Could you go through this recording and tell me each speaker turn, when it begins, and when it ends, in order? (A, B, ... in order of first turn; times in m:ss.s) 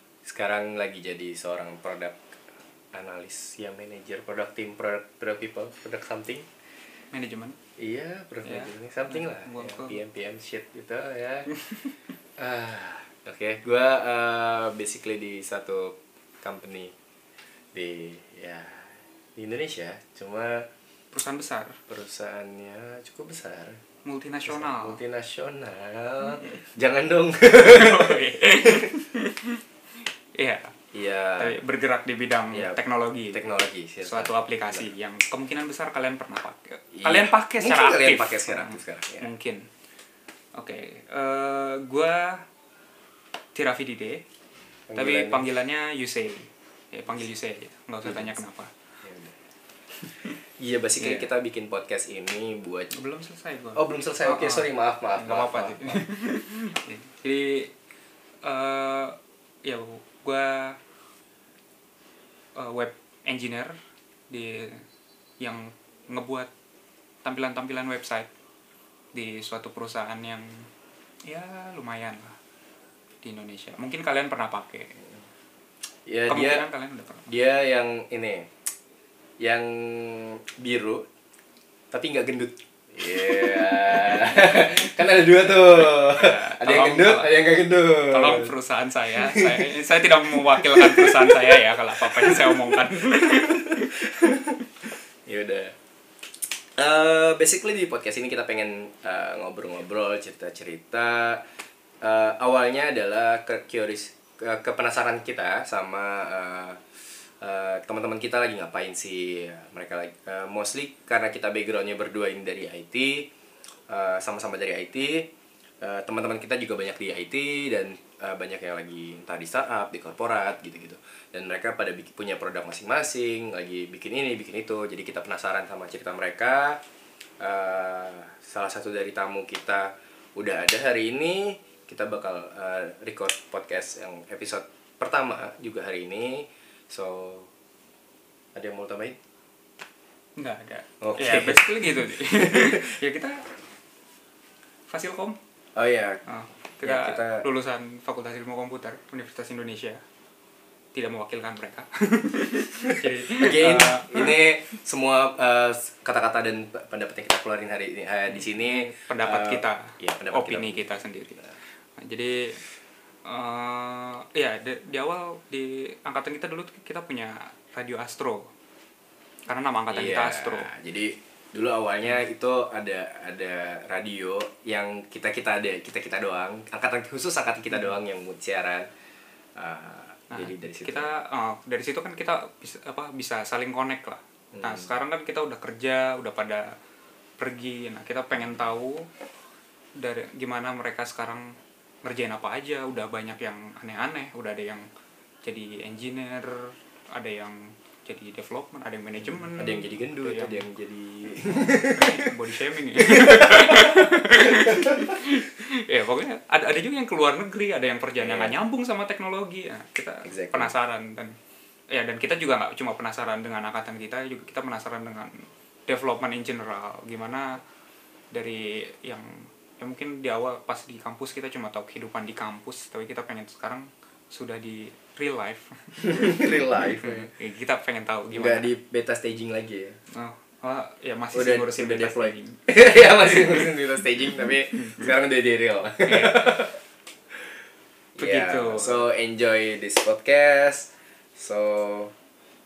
0:00.2-0:02.2 A
0:02.9-0:06.5 A
0:07.1-0:07.6 B
0:07.8-0:11.5 A
0:08.4-0:10.0 B
0:11.6-0:11.8 B
0:12.4-0:16.9 A
0:17.7-0:20.7 A
0:21.1-0:21.8 B
0:21.9-0:23.8 A
0:24.0-0:25.0 B
0:24.5-0:28.9 A
0:27.6-0:29.6 B
0:30.4-0:30.7 B
0:30.9-0:31.6 A
0:31.4-0:33.5 B
0:32.5-0:32.8 A
0:33.3-0:34.9 A
0:34.0-0:39.7 B
0:36.9-0:39.3 A
0:40.6-0:42.4 B
0:43.6-0:44.2 B
0:44.9-0:45.5 A
0:45.0-0:48.7 B
0:48.0-0:48.4 A
0:49.0-0:49.4 A
0:50.0-0:50.4 B
0:50.6-0:52.9 A
0:51.0-0:51.3 B
0:52.9-0:57.7 B
0:53.8-0:56.0 A
0:58.4-1:00.8 B
1:02.6-1:03.8 B
1:04.3-1:04.8 B
1:05.4-1:06.5 B
1:07.2-1:08.3 B
1:09.1-1:10.7 B
1:11.3-1:12.4 B
1:13.2-1:15.0 B
1:16.1-1:16.6 A
1:16.3-1:17.3 B
1:17.3-1:18.5 A
1:19.4-1:21.1 A
1:21.9-1:28.5 A
1:24.0-1:27.4 B
1:28.1-1:34.0 B
1:29.2-1:29.7 A
1:30.3-1:34.6 A
1:35.3-1:35.7 A
1:36.8-1:41.5 A
1:42.0-1:53.3 A
1:53.9-1:55.3 A
1:55.8-2:06.8 A
2:07.4-2:17.5 A
2:18.6-2:19.2 A
2:20.4-2:23.5 B
2:21.0-2:22.9 A
2:24.9-2:25.4 B
2:25.8-2:26.2 A
2:26.3-2:30.0 B
2:26.8-2:27.5 A
2:30.9-2:34.4 B
2:33.4-2:40.8 A
2:38.3-2:42.6 B
2:43.2-2:48.5 B
2:49.5-2:50.7 B
2:49.9-2:58.9 A
2:59.6-3:01.2 A
3:00.3-3:06.7 B
3:04.5-3:04.9 A
3:07.4-3:09.1 B
3:10.0-3:11.5 B
3:12.0-3:14.8 B
3:15.4-3:20.6 B
3:19.2-3:22.3 A
3:21.4-3:31.4 B
3:22.9-3:24.8 A
3:28.2-3:28.6 A
3:30.2-3:30.7 A
3:31.9-3:37.6 B
3:38.3-3:48.7 B
3:46.0-3:47.3 A
3:48.3-3:50.0 A
3:50.1-3:52.6 B
3:51.3-3:56.8 A
3:53.2-3:53.7 B
3:54.8-3:55.1 B
3:56.0-3:56.6 B
3:57.3-3:57.6 A
3:58.2-3:59.1 B
3:58.2-4:02.1 A